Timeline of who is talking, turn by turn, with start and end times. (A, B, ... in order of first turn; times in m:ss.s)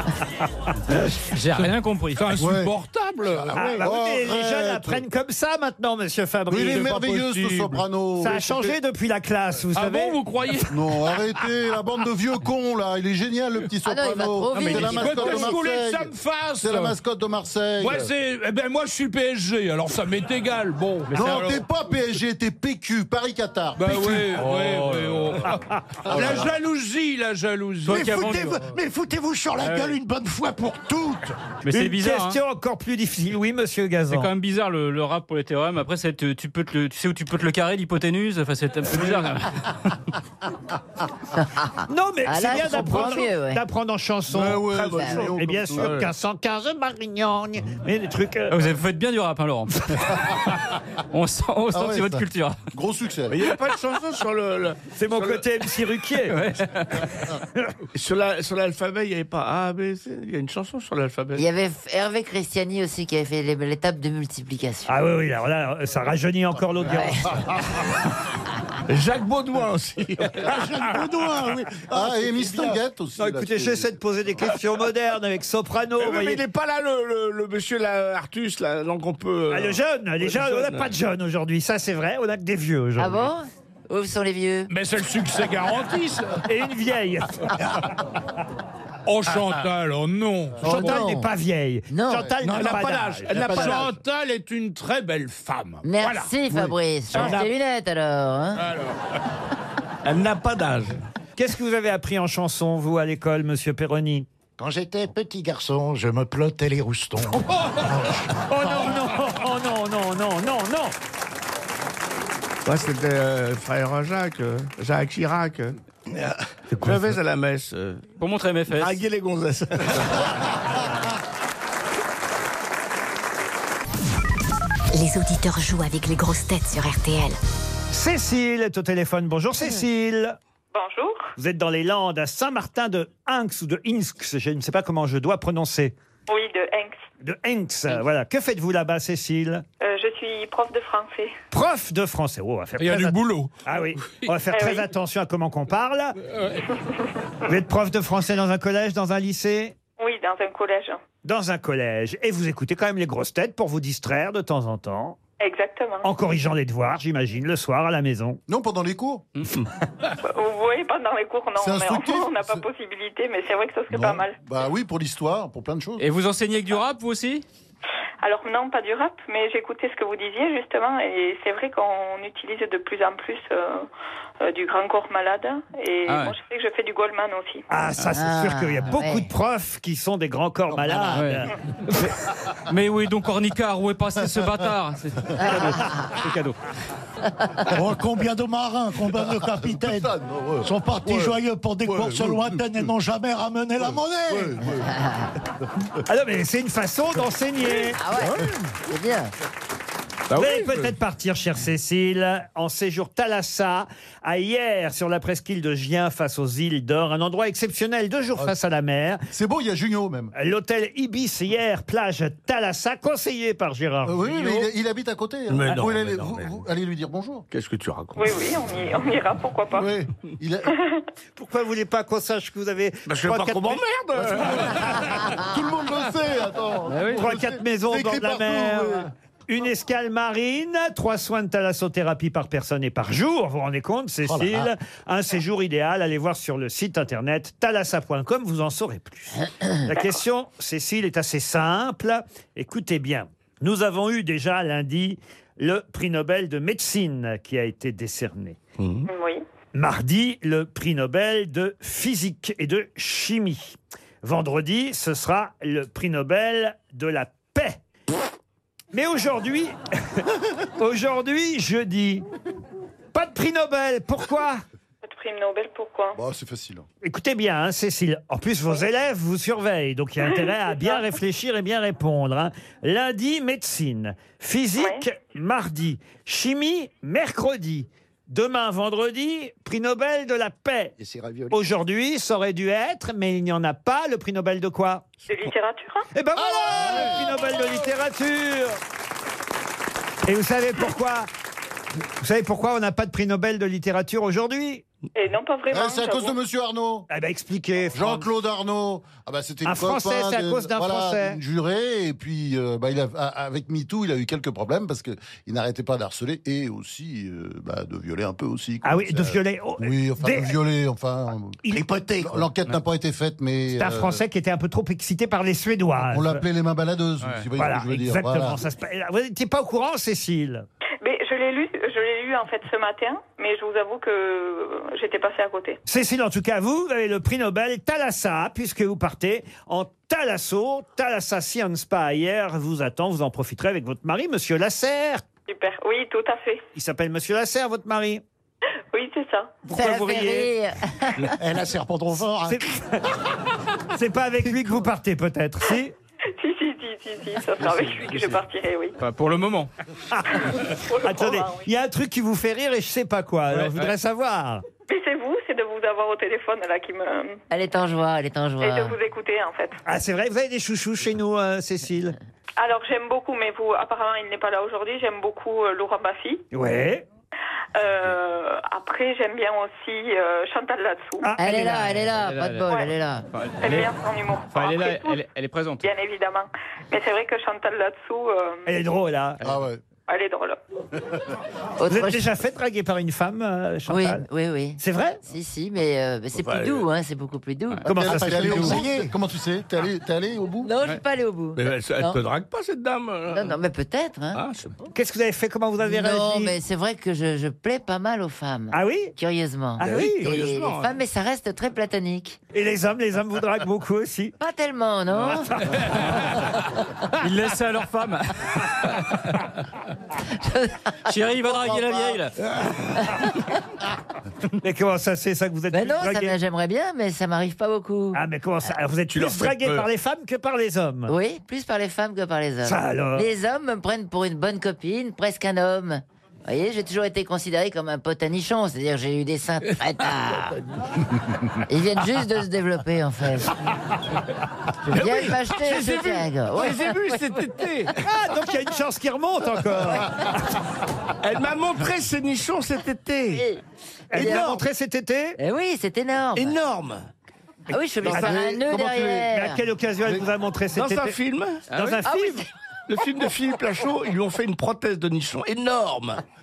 0:00.9-0:02.4 A
0:01.5-0:03.6 B
0:02.4-0:02.7 C
0:03.3-0:05.0 C
0:03.4-0:03.9 D
0:03.5-0:07.3 E
0:06.5-0:08.8 C
0:07.3-0:07.8 B
0:08.2-0:10.2 E
0:09.7-0:11.2 B
0:10.7-0:18.1 C
0:13.8-0:15.6 F
0:14.5-0:14.9 A
0:14.8-0:17.0 B
0:17.8-0:21.6 B
0:21.1-0:21.5 A
0:21.1-0:24.3 C
0:23.8-0:28.7 B
0:24.3-0:25.4 A
0:26.1-0:26.5 C
0:27.8-0:31.4 D
0:27.9-0:28.5 A
0:29.6-0:30.0 A
0:31.6-0:32.4 A
0:31.7-0:34.3 E
0:34.1-0:39.9 A
0:41.3-0:43.6 F
0:41.9-0:48.6 E
0:44.3-0:46.0 C
0:44.6-0:46.1 G
0:45.0-0:45.3 F
0:48.5-0:50.4 A
0:51.1-0:52.6 A
0:51.7-0:53.4 C
0:53.3-0:55.4 G
0:54.9-0:56.4 E
0:56.2-0:57.2 A
0:57.9-1:01.4 G
1:01.3-1:04.9 F
1:04.9-1:07.3 E
1:06.8-1:07.4 F
1:08.9-1:10.9 G
1:10.4-1:12.8 D
1:11.9-1:14.0 C
1:13.2-1:16.4 E
1:16.0-1:20.9 G
1:19.5-1:23.3 E
1:23.0-1:24.7 F
1:24.7-1:26.4 B
1:26.4-1:27.5 E
1:29.0-1:31.0 B
1:30.6-1:33.8 E
1:30.6-1:31.3 F
1:31.9-1:32.3 F
1:32.4-1:34.0 G
1:33.4-1:33.8 C
1:33.4-1:36.3 B
1:35.8-1:38.6 F
1:37.1-1:37.5 G
1:38.6-1:39.0 B
1:40.0-1:41.0 G
1:41.4-1:44.3 E
1:44.6-1:49.2 D
1:48.5-1:51.0 E
1:52.6-1:58.1 G
1:58.2-1:59.0 A
1:58.7-2:00.3 G
2:04.9-2:07.4 H
2:07.9-2:10.4 E
2:10.7-2:11.3 I
2:11.4-2:15.9 E
2:16.3-2:17.0 I
2:17.2-2:19.6 E
2:19.8-2:21.3 I
2:21.5-2:26.2 E
2:22.8-2:23.5 B
2:24.5-2:24.9 I
2:26.4-2:26.6 B
2:27.4-2:29.7 E
2:30.0-2:31.0 I
2:31.2-2:35.2 E
2:35.4-2:36.1 I
2:36.0-2:38.4 E
2:38.5-2:39.2 C
2:40.2-2:44.4 I
2:41.6-2:42.6 C
2:43.9-2:46.0 C
2:46.0-2:47.4 A
2:48.2-2:53.9 I
2:54.4-2:57.6 I
2:56.1-2:56.3 A
2:57.7-3:02.1 E
2:58.1-2:59.3 F
3:01.1-3:01.5 A
3:02.7-3:06.6 A
3:05.4-3:06.1 F
3:07.7-3:14.6 D
3:09.0-3:12.9 C
3:13.8-3:14.9 C
3:14.8-3:15.3 F
3:16.0-3:18.0 E
3:17.9-3:19.3 F
3:18.2-3:18.5 C
3:20.3-3:29.2 E
3:29.3-3:30.3 C
3:30.3-3:34.7 E
3:34.0-3:37.4 C
3:35.5-3:36.6 G
3:37.5-3:38.3 G
3:38.2-3:39.9 I
3:39.7-3:40.8 C
3:40.7-3:41.0 I
3:41.4-3:43.8 E
3:43.0-3:45.1 G
3:44.4-3:49.1 C
3:46.9-3:47.2 A
3:47.1-4:08.6 E
3:54.2-3:54.7 D
4:08.8-4:09.1 G
4:09.1-4:09.4 I
4:09.7-4:17.8 E
4:18.9-4:22.2 E
4:23.1-4:24.6 E
4:25.0-4:26.2 I
4:26.1-4:26.8 C
4:27.0-4:40.9 E
4:41.0-4:41.6 D
4:41.5-4:45.0 E
4:45.3-4:46.1 I
4:46.1-4:48.8 E
4:46.6-4:47.5 C
4:50.2-4:51.3 E
4:52.2-4:54.8 E
4:55.1-4:56.4 I
4:55.7-4:57.1 C
4:57.1-4:58.3 E
4:57.9-5:11.6 C
4:59.6-5:01.4 E
5:08.8-5:10.6 E
5:11.7-5:12.5 D
5:12.2-5:14.2 C
5:13.7-5:16.4 E
5:16.0-5:18.6 C
5:17.2-5:17.5 A
5:17.6-5:20.6 E
5:21.0-5:25.8 I
5:25.8-5:35.2 E
5:35.5-5:36.6 I
5:36.7-5:38.2 E
5:38.9-5:39.5 I
5:39.6-5:40.5 E
5:39.7-5:41.4 F
5:41.3-5:42.7 D
5:42.4-5:43.1 E
5:43.9-5:45.9 E
5:46.4-5:49.0 I
5:49.0-5:49.7 A
5:50.1-5:54.6 E
5:50.4-5:51.6 I
5:53.5-5:53.9 A
5:54.9-5:57.4 I
5:57.5-5:59.0 F
5:58.6-5:59.8 I
5:59.8-6:02.2 E
6:02.6-6:06.4 I
6:06.5-6:07.0 E
6:07.7-6:11.2 I
6:11.2-6:11.9 E
6:11.4-6:13.2 F
6:11.7-6:12.7 A
6:13.3-6:13.9 A
6:13.6-6:15.2 I
6:14.5-6:15.8 A
6:15.8-6:18.7 I
6:18.6-6:19.4 E
6:19.4-6:19.8 C
6:20.1-6:20.6 I
6:21.8-6:22.2 F
6:21.9-6:24.2 E
6:23.9-6:27.8 F
6:24.8-6:25.2 E
6:26.3-6:26.9 G
6:27.8-6:28.8 E
6:27.9-6:30.7 C
6:28.1-6:29.1 D
6:30.6-6:32.2 F
6:31.6-6:33.6 G
6:33.3-6:34.4 F
6:34.3-6:34.7 G
6:34.9-6:36.5 E
6:35.8-6:42.4 F
6:38.7-6:39.1 E
6:39.8-6:40.3 E
6:39.8-6:41.0 G
6:42.5-6:44.3 E
6:44.4-6:45.8 F
6:47.2-6:49.0 A
6:50.3-6:52.2 F
6:51.1-6:52.3 A
6:52.9-6:53.4 F
6:54.6-6:56.3 E
6:55.7-6:58.7 F
6:58.1-7:01.1 E
6:59.1-6:59.9 G
7:01.1-7:10.6 F
7:02.6-7:03.2 E
7:11.7-7:13.5 F
7:14.9-7:17.4 F
7:14.9-7:18.0 G
7:18.0-7:20.2 E
7:21.2-7:23.5 G
7:23.3-7:23.6 F
7:24.1-7:25.4 E
7:24.1-7:24.6 F
7:24.2-7:24.6 G
7:25.4-7:26.6 F
7:26.3-7:27.1 G
7:27.7-7:29.6 F
7:28.0-7:29.3 C
7:28.0-7:28.3 E
7:29.3-7:31.2 E
7:30.7-7:31.6 G
7:31.7-7:32.4 E
7:31.7-7:32.0 A
7:32.0-7:32.4 F
7:32.9-7:36.2 G